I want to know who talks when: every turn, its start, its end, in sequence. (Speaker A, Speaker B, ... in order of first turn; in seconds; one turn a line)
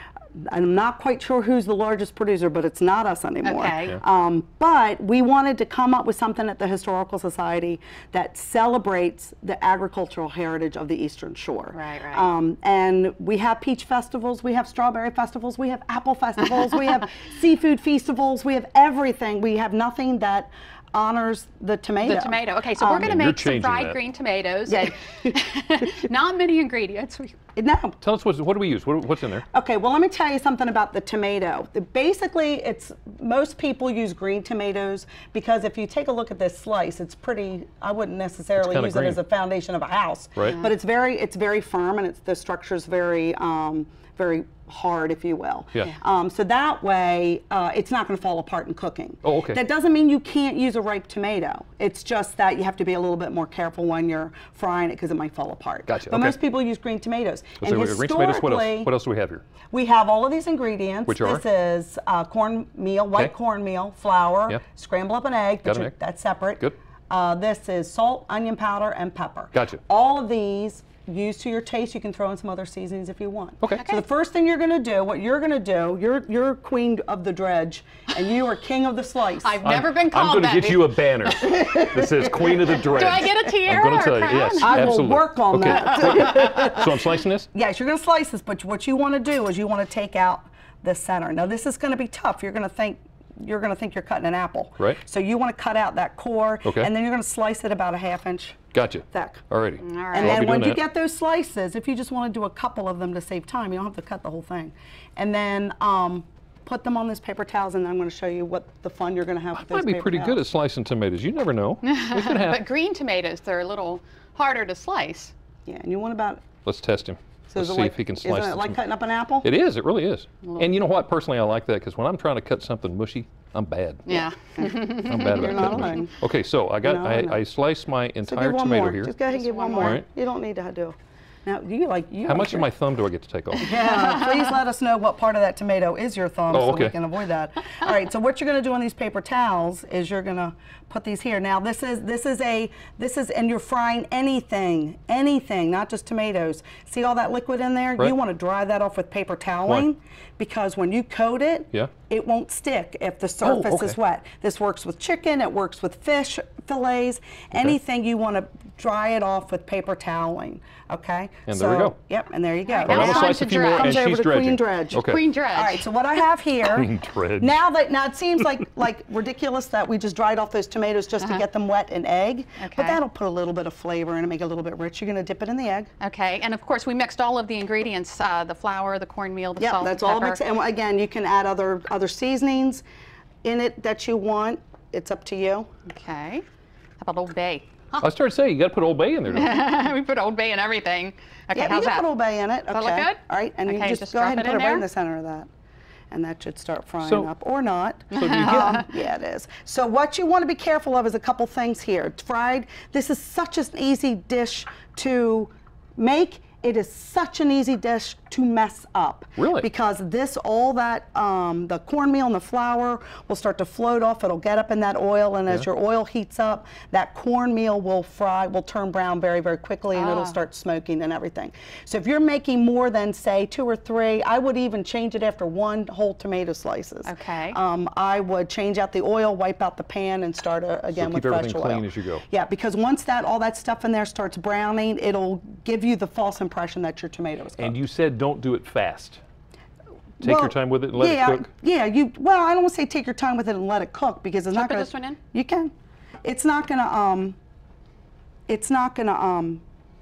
Speaker A: 0.4-23.2
Speaker B: 3.4-4.0
Speaker B: 11.7-12.3
Speaker B: 22.0-27.3
Speaker C: 23.0-24.0
Speaker A: 24.7-25.4
Speaker A: 27.5-28.0
Speaker C: 28.0-29.4
Speaker A: 29.5-58.9
Speaker C: 38.6-39.2
Speaker C: 49.2-49.6
Speaker C: 55.9-56.3
Speaker C: 57.6-59.4
Speaker A: 59.7-79.6
Speaker C: 61.1-61.4
Speaker C: 65.6-65.9
Speaker C: 69.5-69.8
Speaker B: 73.7-74.0
Speaker B: 79.4-81.8
Speaker C: 79.6-87.5
Speaker A: 82.0-83.2
Speaker B: 82.8-84.9
Speaker A: 84.6-98.6
Speaker C: 96.6-96.9
Speaker C: 98.7-100.8
Speaker A: 99.1-99.4
Speaker B: 99.8-100.5
Speaker A: 100.1-110.4
Speaker C: 109.6-112.6
Speaker B: 111.8-115.3
Speaker A: 115.7-116.5
Speaker C: 116.6-118.8
Speaker A: 117.5-119.5
Speaker C: 119.4-124.2
Speaker B: 120.4-120.8
Speaker B: 124.0-126.0
Speaker A: 124.4-126.1
Speaker C: 124.9-129.1
Speaker A: 126.8-127.4
Speaker A: 128.2-132.7
Speaker B: 129.3-130.0
Speaker C: 129.8-130.1
Speaker C: 132.2-134.0
Speaker A: 133.6-175.9
Speaker C: 136.5-136.9
Speaker C: 153.4-154.0
Speaker C: 161.5-161.9
Speaker B: 162.7-164.1
Speaker C: 162.8-165.2
Speaker B: 164.9-165.9
Speaker C: 166.7-167.6
Speaker B: 171.2-171.4
Speaker B: 172.6-173.0
Speaker B: 176.0-180.4
Speaker A: 179.6-182.8
Speaker A: 183.4-185.7
Speaker B: 185.9-186.4
Speaker B: 187.0-188.1
Speaker C: 188.0-189.7
Speaker B: 189.3-192.1
Speaker A: 191.5-195.5
Speaker B: 192.7-194.8
Speaker A: 196.1-237.8
Speaker C: 197.0-197.3
Speaker B: 198.1-198.8
Speaker C: 198.1-198.8
Speaker C: 209.4-209.7
Speaker B: 219.9-220.4
Speaker B: 227.0-227.6
Speaker C: 230.9-232.2
Speaker C: 237.6-239.2
Speaker C: 240.2-241.5
Speaker A: 240.2-245.7
Speaker B: 244.5-245.2
Speaker A: 246.2-247.4
Speaker A: 248.5-249.6